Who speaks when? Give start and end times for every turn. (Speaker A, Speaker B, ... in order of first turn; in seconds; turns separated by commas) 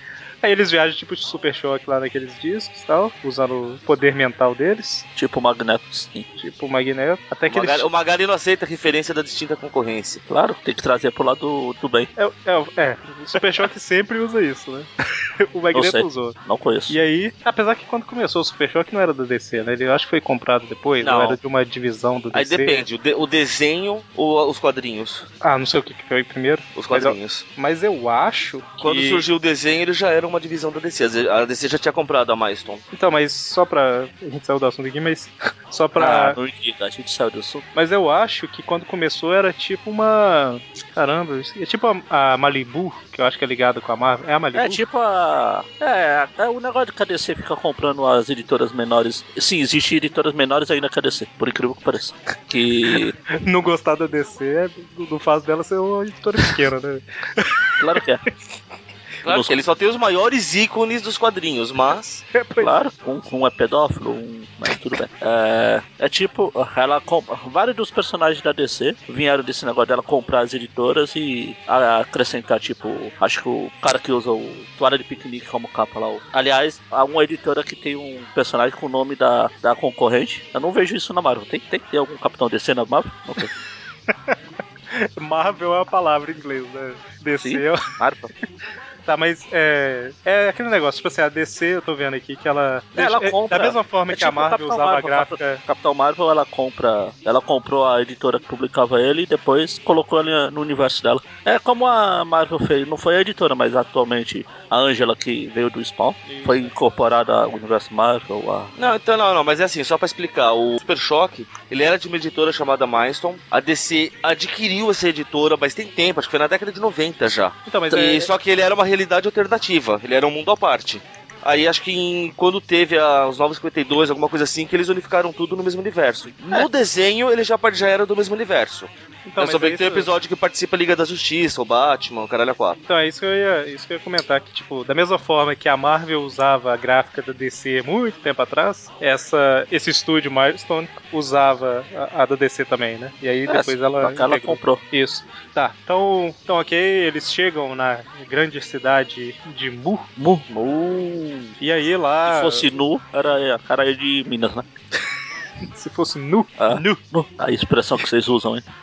Speaker A: 0.4-5.1, Speaker B: 5.2-6.3, Speaker A: 6.4-7.9, Speaker C: 7.5-10.2, Speaker B: 10.3-12.1, Speaker A: 12.2-14.9, Speaker A: 15.5-16.4, Speaker B: 15.7-17.0, Speaker A: 16.9-22.9, Speaker C: 21.0-21.4, Speaker C: 22.3-25.3, Speaker A: 25.4-29.2, Speaker C: 26.8-27.4, Speaker C: 28.8-32.8, Speaker A: 32.9-36.4, Speaker B: 36.0-37.6, Speaker A: 37.8-44.8, Speaker B: 44.5-53.1, Speaker A: 52.9-57.6, Speaker B: 57.8-58.2, Speaker C: 59.2-62.2, Speaker B: 59.3-59.6, Speaker A: 62.3-62.7, Speaker B: 62.6-83.5, Speaker A: 84.1-84.4, Speaker A: 84.9-87.8, Speaker B: 87.4-88.3, Speaker A: 89.1-95.6, Speaker B: 93.0-108.7, Speaker A: 106.3-106.7, Speaker C: 108.8-132.8, Speaker A: 117.7-118.3, Speaker A: 129.3-130.1, Speaker A: 132.9-150.1, Speaker B: 143.5-144.8, Speaker B: 150.2-151.5, Speaker A: 151.6-152.8, Speaker B: 152.2-154.7, Speaker A: 155.7-157.0, Speaker B: 156.6-158.7